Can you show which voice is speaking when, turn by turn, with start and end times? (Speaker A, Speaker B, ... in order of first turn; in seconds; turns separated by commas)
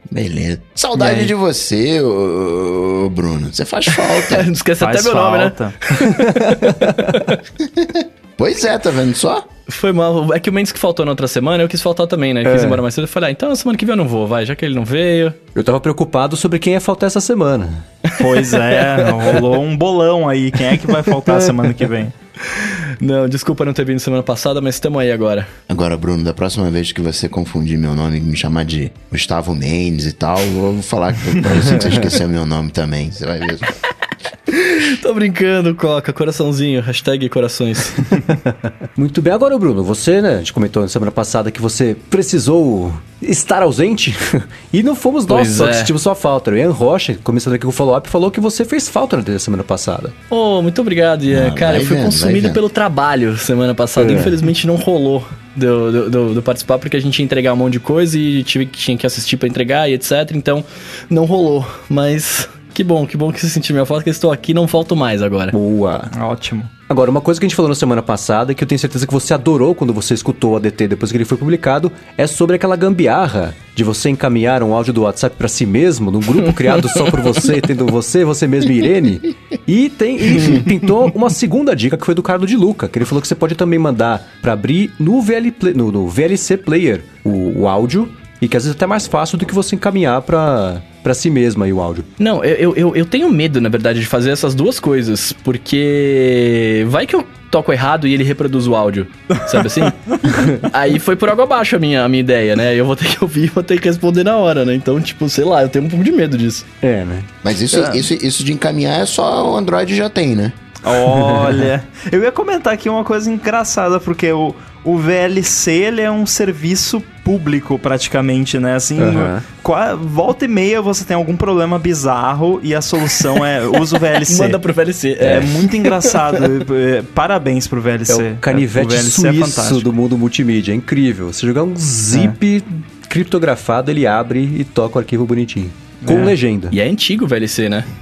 Speaker A: 0.1-4.5, Speaker B: 1.0-1.2, Speaker B: 3.9-7.4, Speaker C: 4.8-5.8, Speaker D: 6.0-7.2, Speaker A: 7.6-9.4, Speaker B: 9.7-15.4, Speaker D: 12.4-12.8, Speaker D: 15.5-17.8, Speaker B: 18.1-19.2, Speaker C: 18.2-22.1, Speaker B: 22.5-25.5, Speaker A: 25.7-33.7, Speaker D: 31.6-32.0, Speaker B: 34.8-38.2, Speaker D: 38.5-50.1, Speaker B: 45.3-45.9, Speaker B: 50.3-65.5, Speaker A: 51.3-52.6, Speaker D: 54.0-54.4, Speaker D: 65.5-66.1, Speaker C: 66.1-66.7, Speaker D: 66.9-92.1, Speaker B: 76.6-77.0, Speaker B: 92.2-106.7, Speaker C: 99.5-100.2, Speaker D: 100.3-100.6, Speaker D: 106.8-107.3, Speaker A: 107.4-110.5, Speaker C: 107.7-108.0, Speaker C: 110.8-124.6, Speaker D: 110.9-111.6, Speaker D: 119.0-119.4, Speaker B: 124.1-126.4, Speaker C: 125.2-129.9, Speaker D: 125.2-125.5, Speaker D: 128.1-136.7, Speaker C: 136.0-136.3, Speaker B: 136.7-137.9